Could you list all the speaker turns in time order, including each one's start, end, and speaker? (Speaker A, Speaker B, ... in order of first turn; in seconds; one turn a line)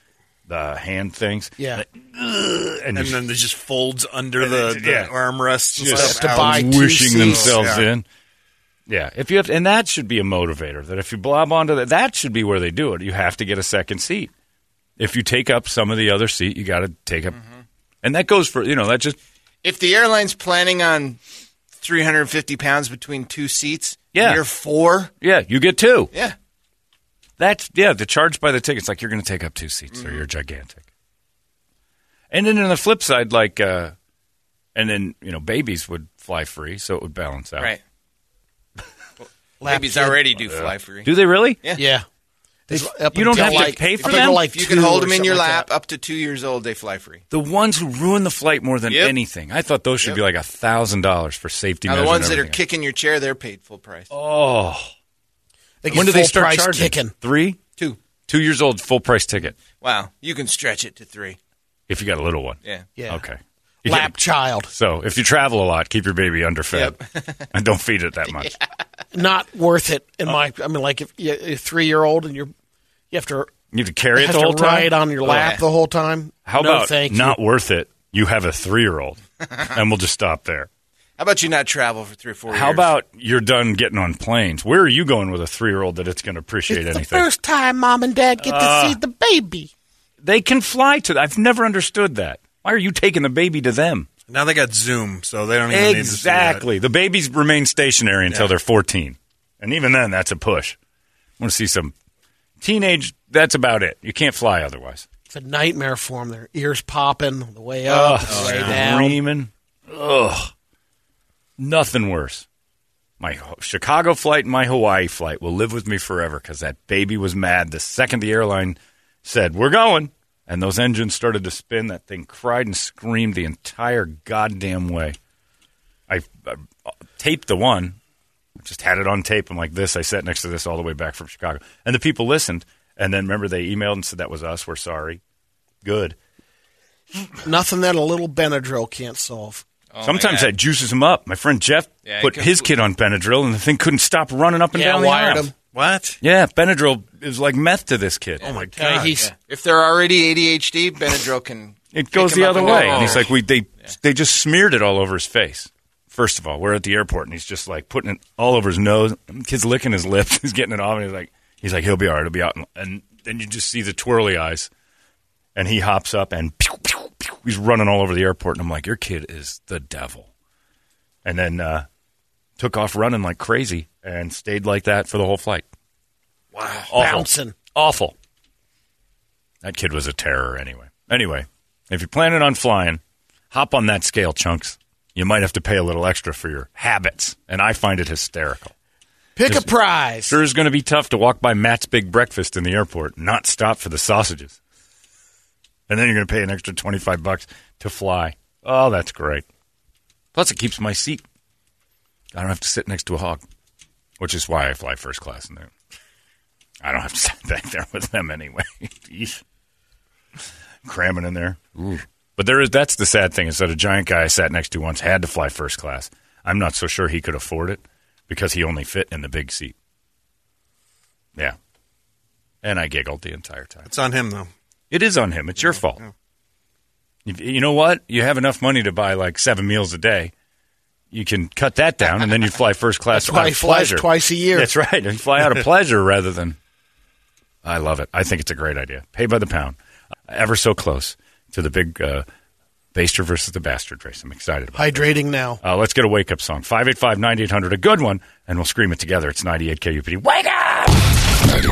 Speaker A: 0.5-3.2
Speaker B: 1.6-1.8
Speaker C: 2.9-7.8
Speaker A: 4.4-5.1
Speaker A: 5.7-8.1
Speaker B: 5.9-7.6
Speaker A: 8.9-14.3
Speaker A: 15.0-17.4
Speaker A: 18.0-19.2
Speaker D: 19.6-21.2
Speaker D: 21.8-25.1
Speaker A: 24.1-24.4
Speaker A: 25.2-26.1
Speaker A: 27.4-30.8
Speaker D: 29.9-30.2
Speaker A: 32.3-33.9
Speaker A: 34.7-37.7
Speaker D: 39.2-41.1
Speaker B: 39.6-40.2
Speaker A: 40.4-41.6
Speaker B: 41.8-42.0
Speaker B: 42.7-45.7
Speaker A: 42.7-44.5
Speaker D: 43.3-47.2
Speaker A: 47.3-52.6
Speaker D: 48.9-49.1
Speaker D: 51.9-54.1
Speaker A: 54.1-54.9
Speaker B: 55.8-57.1
Speaker A: 55.9-57.6
Speaker A: 58.3-59.5
Speaker D: 59.8-61.4
Speaker A: 61.9-64.2
Speaker B: 63.0-63.2
Speaker B: 63.8-64.7
Speaker A: 64.7-67.0
Speaker D: 66.7-67.5
Speaker A: 67.5-68.5
Speaker B: 69.1-72.5
Speaker B: 73.1-73.5
Speaker A: 73.7-75.5
Speaker B: 74.2-77.4
Speaker D: 75.2-75.6
Speaker A: 76.5-80.7
Speaker D: 81.2-82.9
Speaker A: 82.5-87.3
Speaker B: 86.7-89.7
Speaker A: 88.4-89.0
Speaker A: 90.2-94.1
Speaker C: 94.3-96.6
Speaker A: 95.7-100.8
Speaker A: 101.4-101.9
Speaker A: 102.6-105.0
Speaker B: 105.3-109.2
Speaker A: 107.8-110.5
Speaker C: 108.3-108.8
Speaker A: 111.6-112.5
Speaker A: 113.2-125.2
Speaker A: 126.1-128.0
Speaker A: 128.6-135.2
Speaker A: 135.8-136.2
Speaker B: 137.4-139.6
Speaker D: 139.9-140.5
Speaker A: 140.0-145.5
Speaker D: 142.0-142.7
Speaker B: 144.7-145.5
Speaker C: 145.7-146.2
Speaker A: 146.2-148.4
Speaker C: 148.4-149.1
Speaker D: 148.4-153.3
Speaker B: 148.8-149.3
Speaker A: 151.9-164.7
Speaker C: 152.6-153.2
Speaker A: 165.5-170.3
Speaker A: 171.2-171.8
Speaker A: 172.6-175.7
Speaker C: 176.6-176.9
Speaker A: 176.9-178.2
Speaker B: 176.9-177.5
Speaker A: 179.6-188.7
Speaker B: 189.3-190.3
Speaker A: 190.2-194.6
Speaker A: 195.9-199.4
Speaker A: 200.3-201.2
Speaker A: 202.3-203.4
Speaker A: 204.2-205.7
Speaker A: 206.8-209.4
Speaker A: 210.8-219.7
Speaker A: 222.6-223.9
Speaker C: 223.8-224.5
Speaker A: 224.9-226.0
Speaker A: 227.2-230.3
Speaker A: 231.1-236.6
Speaker B: 233.1-234.7
Speaker A: 237.6-239.8
Speaker A: 240.3-242.2
Speaker A: 242.9-245.0
Speaker B: 244.8-245.6
Speaker A: 245.6-251.0